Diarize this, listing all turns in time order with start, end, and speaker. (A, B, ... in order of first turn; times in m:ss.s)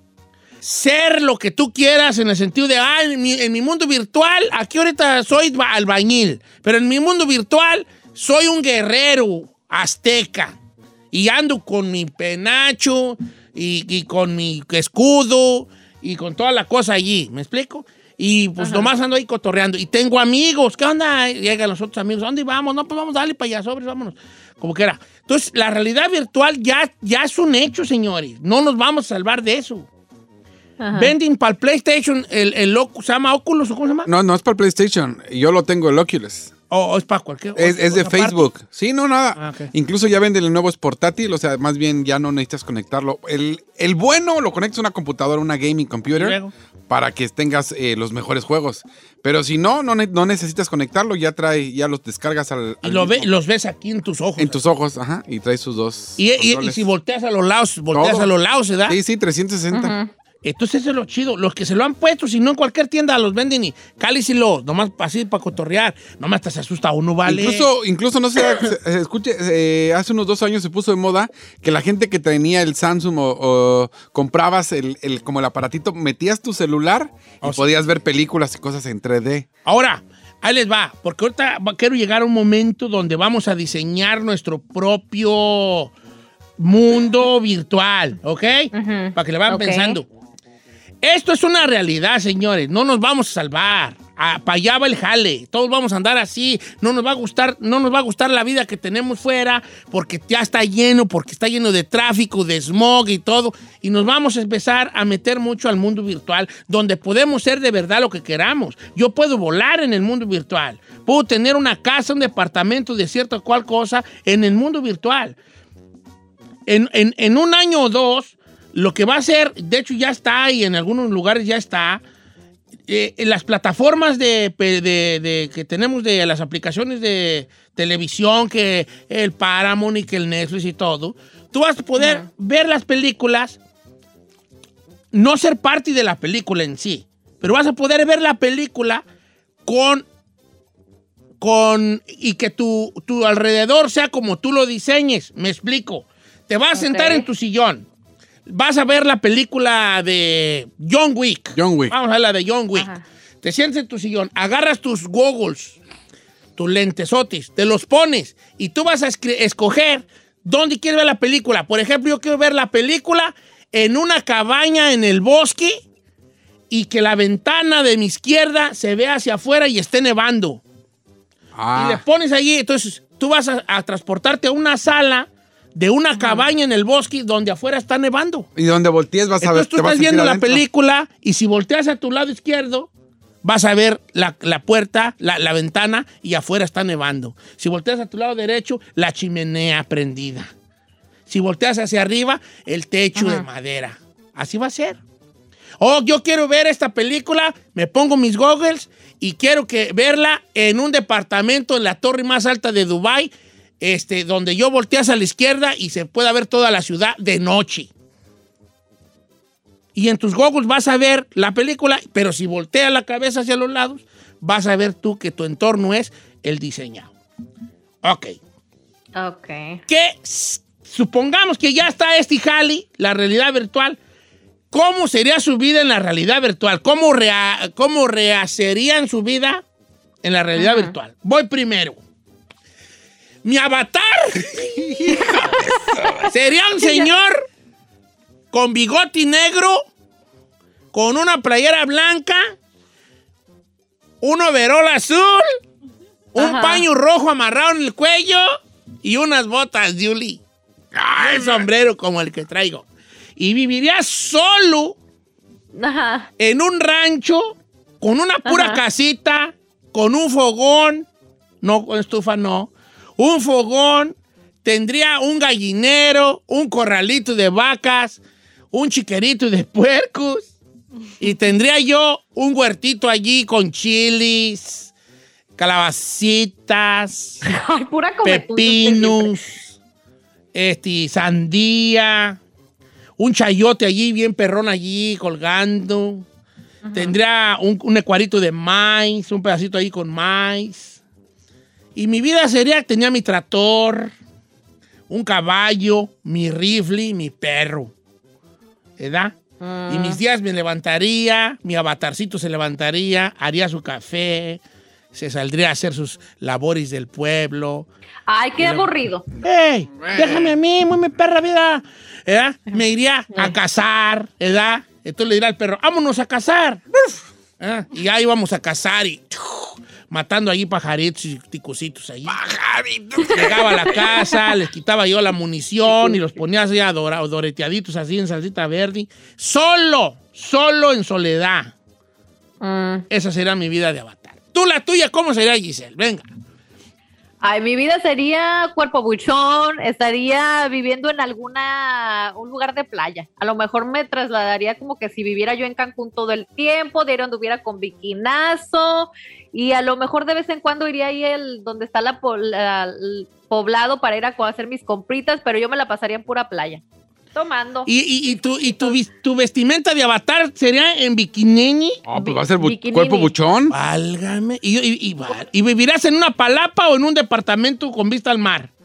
0:00.6-0:10.6 A
0:11.1-0:29.9 A
0:18.6-0:18.9 B
0:30.8-0:31.1 B
0:30.9-0:34.1 A
0:34.1-0:36.5 C
0:36.7-0:38.4 A
0:37.6-0:53.3 C
0:39.4-0:39.7 A
0:46.1-0:46.5 A
0:52.8-0:54.6 A
0:54.4-0:56.9 C
0:56.2-0:59.0 A
0:57.9-0:58.3 C
0:58.9-1:00.0 C
0:59.7-1:00.1 B
1:00.4-1:07.7 A
1:07.2-1:19.5 C
1:19.6-1:25.9 A
1:26.6-1:30.1 A
1:28.7-1:30.0 B
1:31.0-1:55.4 A
1:56.7-2:02.0 A
2:02.9-2:13.6 A
2:12.0-2:12.3 B
2:15.1-2:19.0 A
2:19.7-2:20.1 A
2:21.4-2:27.9 A
2:26.7-2:27.3 B
2:28.5-2:35.8 A
2:31.6-2:31.9 C
2:32.8-2:33.0 B
2:36.6-2:45.8 A
2:46.7-2:50.6 A
2:51.5-2:52.0 C
2:51.7-2:58.5 A
2:56.2-2:56.5 B
2:58.6-3:00.6 C
2:59.4-3:02.9 A
3:03.4-3:10.5 A
3:11.3-3:15.0 A
3:13.2-3:13.5 B
3:15.8-3:27.9 A
3:30.0-3:37.1 A
3:38.0-3:38.4 A
3:39.2-3:39.8 B
3:39.9-3:44.0 A
3:44.7-3:49.6 A
3:50.2-3:52.0 A
3:50.6-3:50.9 B
3:53.4-3:55.2 A
3:54.8-3:56.3 C
3:56.3-3:57.4 A
3:56.8-3:57.1 B
3:58.5-3:59.9 A
4:00.9-4:02.6 A
4:04.2-4:05.5 A
4:06.3-4:10.4 A
4:06.4-4:06.9 B
4:10.9-4:11.7 C
4:11.2-4:12.9 A
4:13.4-4:15.0 A
4:15.7-4:16.3 B
4:16.4-4:21.1 A
4:18.5-4:18.8 B
4:21.6-4:28.2 A
4:28.7-4:30.5 A
4:31.2-4:34.9 A
4:35.6-4:37.4 A
4:37.4-4:39.4 B
4:38.2-4:39.7 A
4:40.5-4:42.4 A
4:43.2-4:46.2 A
4:46.8-4:47.2 B
4:46.9-4:51.0 A
4:52.0-4:54.1 A
4:55.1-4:57.9 A
4:59.0-5:04.6 A
4:59.6-5:00.2 B
5:05.1-5:07.9 A
5:08.3-5:09.3 B
5:08.6-5:08.9 A
5:09.4-5:10.6 C
5:09.4-5:16.8 A
5:17.6-5:22.4 A
5:22.3-5:23.9 C
5:23.3-5:31.7 A
5:32.6-5:33.1 B
5:33.1-5:36.3 A
5:37.4-5:56.8 B
5:57.3-5:57.9 B
5:57.9-6:02.0 A
6:02.1-6:03.8 C
6:02.1-6:03.3 B
6:03.7-6:08.7 A